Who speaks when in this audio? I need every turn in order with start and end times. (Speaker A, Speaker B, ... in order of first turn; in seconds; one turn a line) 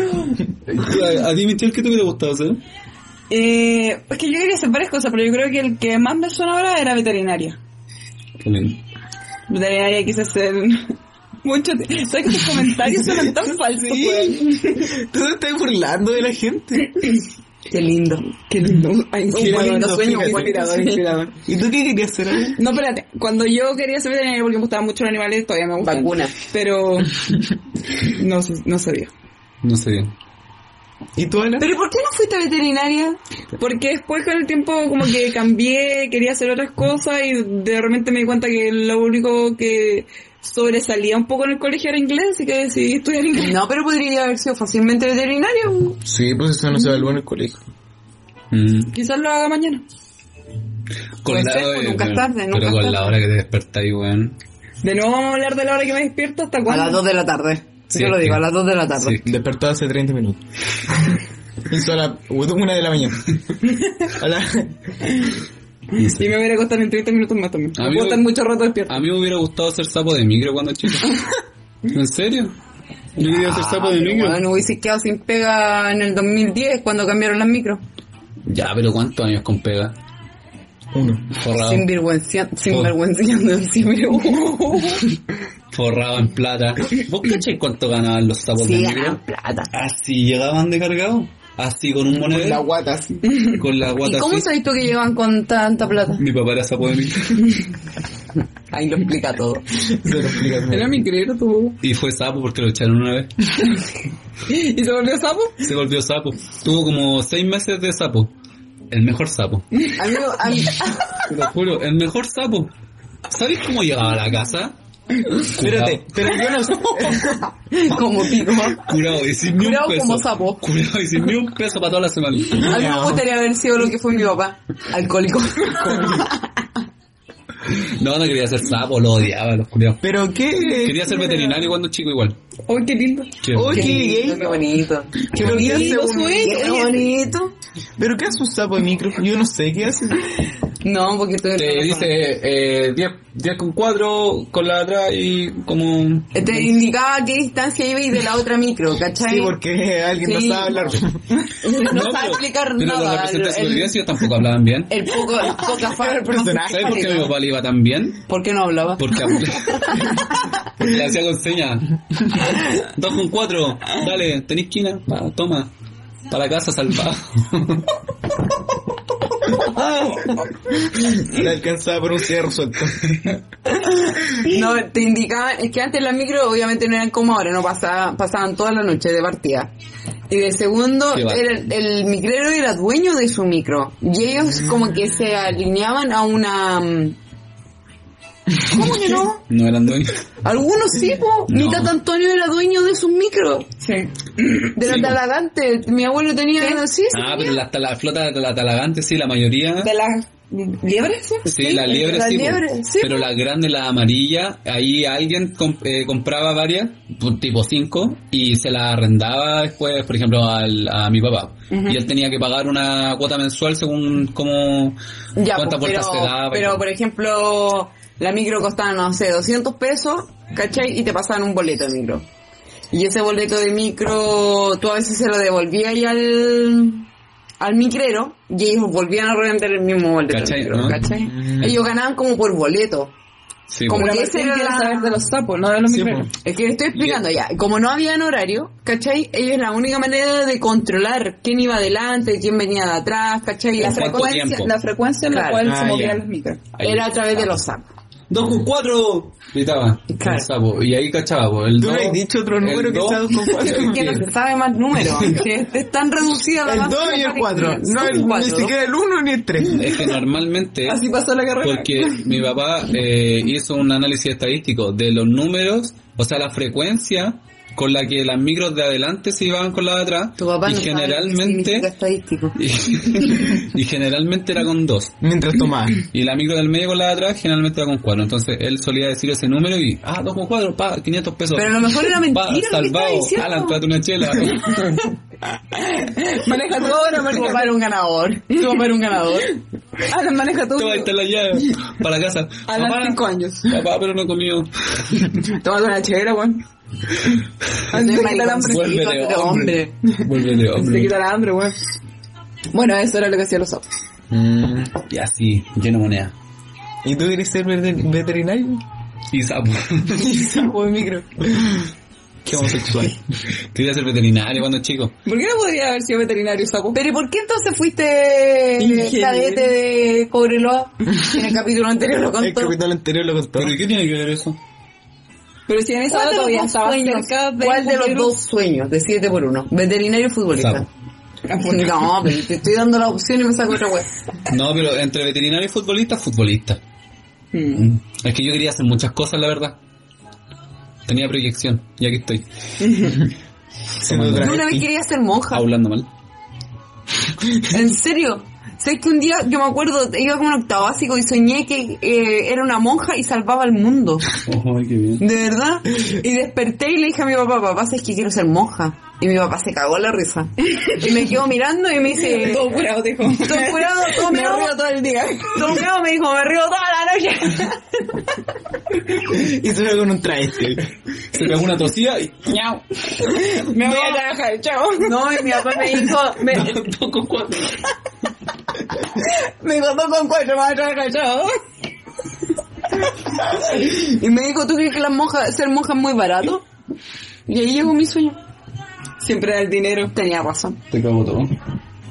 Speaker A: 0.7-2.6
Speaker B: 3.3-7.6
Speaker A: 8.4-8.8
Speaker B: 9.5-14.9
Speaker C: 13.7-17.1
Speaker D: 17.7-18.2
Speaker B: 18.5-21.3
Speaker D: 19.3-21.3
Speaker C: 19.3-20.5
Speaker C: 21.4-22.6
Speaker B: 22.6-27.2
Speaker D: 25.8-26.3
Speaker B: 27.9-29.1
Speaker A: 29.6-30.1
Speaker C: 31.1-31.7
Speaker D: 31.6-33.2
Speaker B: 33.6-43.5
Speaker D: 43.4-46.0
Speaker C: 46.0-47.6
Speaker A: 48.5-48.9
Speaker B: 48.9-49.8
Speaker A: 51.2-54.4
Speaker D: 51.3-53.1
Speaker B: 54.8-57.0
Speaker D: 56.7-59.2
Speaker A: 57.9-59.2
Speaker C: 59.2-60.4
Speaker C: 61.7-63.4
Speaker C: 64.1-64.8
Speaker A: 65.9-66.3
Speaker B: 66.0-69.1
Speaker A: 67.8-68.3
Speaker A: 68.9-71.2
Speaker A: 71.9-72.5
Speaker A: 73.2-74.4
Speaker D: 73.2-77.8
Speaker A: 78.4-80.0
Speaker C: 80.9-81.2
Speaker A: 81.3-81.9
Speaker D: 81.5-84.8
Speaker B: 84.3-85.0
Speaker A: 85.7-89.2
Speaker D: 88.6-89.7
Speaker A: 89.7-92.7
Speaker C: 92.1-93.1
Speaker A: 93.5-94.5
Speaker D: 94.0-96.2
Speaker A: 96.2-97.4
Speaker D: 98.7-99.6
Speaker C: 99.8-101.0
Speaker B: 100.7-101.8
Speaker A: 101.8-103.3
Speaker B: 104.5-105.6
Speaker A: 105.6-108.3
Speaker A: 108.9-109.7
Speaker B: 109.8-110.2
Speaker D: 110.0-111.2
Speaker A: 111.2-112.7
Speaker A: 113.3-114.8
Speaker A: 115.5-116.3
Speaker C: 115.5-117.5
Speaker D: 117.7-118.9
Speaker A: 118.8-122.7
Speaker D: 119.5-120.6
Speaker D: 122.6-126.4
Speaker C: 122.7-123.2
Speaker C: 125.8-126.3
Speaker A: 127.7-130.2
Speaker C: 130.0-131.1
Speaker A: 130.8-132.4
Speaker B: 131.2-131.6
Speaker B: 132.7-134.5
Speaker A: 133.4-133.9
Speaker C: 133.5-134.6
Speaker D: 133.7-137.5
Speaker C: 135.3-136.7
Speaker B: 135.3-137.1
Speaker C: 138.0-140.4
Speaker D: 140.8-142.1
Speaker A: 141.5-146.5
Speaker D: 146.3-149.6
Speaker C: 149.2-151.2
Speaker D: 150.2-150.9
Speaker D: 151.6-153.9
Speaker A: 151.7-155.1
Speaker D: 154.9-157.3
Speaker C: 155.6-157.2
Speaker A: 156.7-158.2
Speaker D: 158.3-160.2
Speaker A: 159.0-160.0
Speaker A: 160.8-165.7
Speaker A: 166.3-167.9
Speaker C: 170.8-173.2
Speaker D: 174.3-179.7
Speaker D: 180.3-187.2
Speaker A: 181.1-181.5
Speaker D: 188.7-189.4
Speaker A: 189.5-190.2
Speaker D: 190.4-193.7
Speaker A: 191.5-191.9
Speaker B: 193.8-194.7
Speaker D: 194.8-197.6
Speaker A: 194.8-195.2
Speaker B: 196.6-196.8
Speaker A: 197.1-199.9
Speaker B: 199.8-202.1
Speaker A: 201.4-215.0
Speaker D: 201.6-203.2
Speaker D: 215.3-222.2
Speaker A: 215.5-216.8
Speaker D: 222.9-227.1
Speaker D: 227.6-233.1
Speaker A: 230.3-231.0
Speaker C: 231.2-231.8
Speaker A: 233.7-234.1
Speaker D: 233.9-235.1
Speaker B: 233.9-236.3
Speaker C: 235.8-236.3
Speaker D: 236.4-244.4
Speaker A: 236.9-237.2
Speaker A: 243.8-244.7
Speaker B: 243.8-246.6
Speaker D: 245.3-245.7
Speaker C: 245.6-246.2
Speaker A: 246.7-247.6
Speaker D: 246.8-247.8
Speaker A: 248.3-254.2
Speaker D: 250.1-250.5
Speaker C: 251.8-254.2
Speaker D: 253.5-258.7
Speaker A: 255.0-255.4
Speaker C: 256.6-259.9
Speaker A: 259.7-261.0
Speaker B: 260.9-262.4
Speaker A: 261.6-271.9
Speaker D: 270.4-272.6
Speaker A: 272.5-275.1
Speaker C: 275.2-276.1
Speaker A: 276.1-284.9
Speaker D: 281.5-283.8
Speaker B: 285.7-287.7
Speaker D: 286.8-289.6
Speaker B: 290.1-291.1
Speaker A: 290.8-295.1
Speaker B: 292.7-293.8
Speaker B: 295.3-296.6
Speaker B: 297.9-298.9
Speaker D: 297.9-299.9
Speaker A: 298.6-301.1
Speaker B: 300.1-301.8
Speaker B: 302.7-303.8
Speaker C: 304.3-304.9
Speaker A: 305.1-306.3
Speaker C: 307.0-308.8
Speaker A: 309.3-310.3
Speaker C: 310.4-310.7
Speaker D: 310.4-311.2
Speaker C: 311.4-311.8
Speaker C: 312.4-313.2
Speaker A: 312.6-313.0
Speaker A: 313.7-315.1
Speaker B: 315.2-317.0
Speaker D: 316.9-322.8
Speaker B: 318.8-319.7
Speaker C: 322.4-323.7
Speaker A: 323.6-324.6
Speaker B: 325.7-328.3
Speaker D: 326.1-330.9
Speaker A: 330.5-330.8
Speaker B: 331.5-331.9
Speaker D: 331.5-334.1
Speaker A: 334.5-336.8
Speaker B: 337.5-337.9
Speaker A: 337.7-339.8
Speaker A: 341.1-342.4
Speaker B: 342.8-343.2
Speaker A: 344.0-344.8
Speaker C: 344.0-344.8
Speaker D: 344.4-345.6
Speaker A: 345.5-346.1
Speaker D: 347.7-354.3
Speaker A: 354.4-355.2
Speaker D: 355.2-362.7
Speaker B: 362.2-365.8
Speaker D: 363.3-364.8
Speaker D: 365.4-367.8
Speaker C: 369.2-370.9
Speaker A: 371.3-372.8
Speaker B: 373.1-376.0
Speaker D: 373.9-374.1
Speaker D: 375.0-376.7
Speaker A: 376.4-377.8
Speaker B: 379.1-381.5
Speaker D: 383.5-386.6
Speaker D: 387.5-388.4
Speaker B: 389.2-390.1
Speaker D: 390.1-390.8
Speaker A: 390.9-391.5